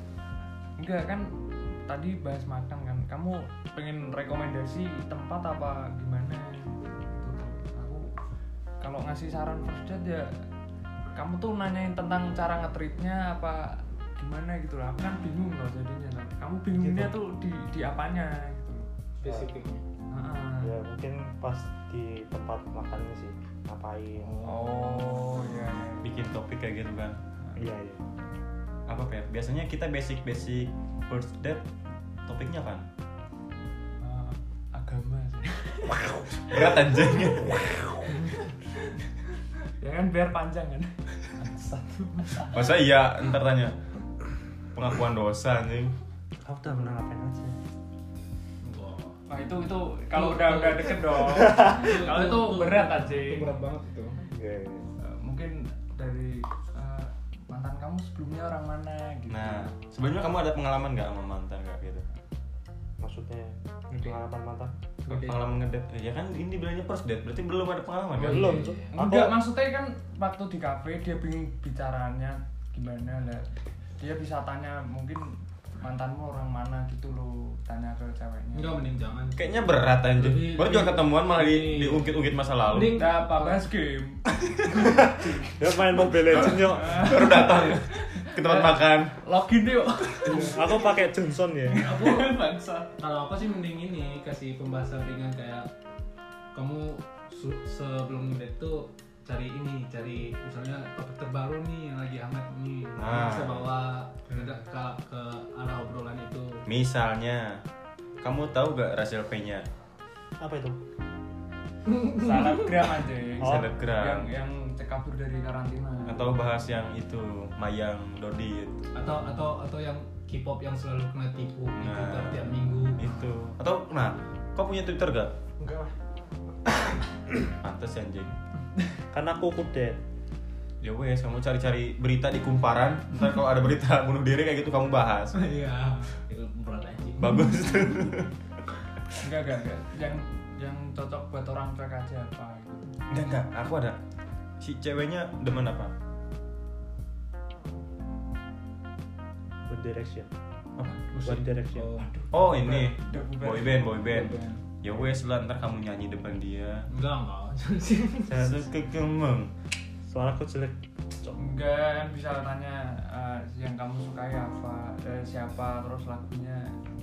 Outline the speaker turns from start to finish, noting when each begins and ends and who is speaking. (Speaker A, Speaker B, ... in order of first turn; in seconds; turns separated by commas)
Speaker A: 0.8-8.1, Speaker A: 8.8-10.4, Speaker A: 11.1-18.9, Speaker B: 16.7-17.2, Speaker C: 19.2-19.8, Speaker B: 19.2-19.5, Speaker A: 20.1-20.7, Speaker B: 20.6-24.5, Speaker C: 24.2-24.7, Speaker A: 24.4-26.2, Speaker D: 26.0-27.2, Speaker B: 27.6-28.0, Speaker D: 28.9-31.6, Speaker D: 32.3-32.9, Speaker A: 34.0-36.8, Speaker D: 36.5-37.7, Speaker A: 38.1-38.5, Speaker A: 39.8-42.7, Speaker D: 42.5-43.8, Speaker D: 44.7-46.0, Speaker B: 46.4-47.6, Speaker C: 48.6-49.2, Speaker A: 49.3-53.5, Speaker C: 50.1-54.2, Speaker B: 51.4-51.8, Speaker B: 54.3-54.9, Speaker A: 55.0-59.7, Speaker D: 59.3-62.0, Speaker B: 63.0-64.8, Speaker C: 65.1-65.4, Speaker D: 65.1-68.6, Speaker C: 68.2-69.0, Speaker B: 68.2-69.3, Speaker A: 68.9-73.5, Speaker A: 74.0-78.9, Speaker C: 78.5-79.5, Speaker D: 79.4-83.1, Speaker C: 80.2-83.7, Speaker A: 82.8-85.5, Speaker B: 84.7-87.2, Speaker A: 86.3-90.7, Speaker D: 86.8-89.2, Speaker B: 90.3-91.9, Speaker A: 91.7-92.9, Speaker C: 91.8-92.4, Speaker C: 93.0-95.7, Speaker C: 96.5-106.6, Speaker D: 103.0-103.7, Speaker D: 106.7-107.6, Speaker D: 108.2-109.7, Speaker B: 110.4-110.8, Speaker A: 111.9-116.3, Speaker C: 112.0-112.7, Speaker B: 113.4-113.7, Speaker D: 113.4-114.3, Speaker D: 116.1-118.8, Speaker C: 118.9-123.1, Speaker D: 121.8-125.3, Speaker D: 127.6-128.4, Speaker B: 129.1-130.0, Speaker D: 130.8-135.4, Speaker C: 135.3-137.4, Speaker D: 137.2-138.3, Speaker A: 139.2-143.0, Speaker D: 143.1-144.0, Speaker D: 144.6-145.9, Speaker B: 149.7-150.3, Speaker D: 150.8-151.1, Speaker C: 151.1-152.1, Speaker B: 151.2-152.0, Speaker A: 152.0-153.9, Speaker D: 152.3-156.9, Speaker C: 154.0-154.6, Speaker C: 156.9-158.4, Speaker B: 158.3-158.7, Speaker D: 158.3-159.5, Speaker B: 160.1-161.4, Speaker A: 161.4-166.8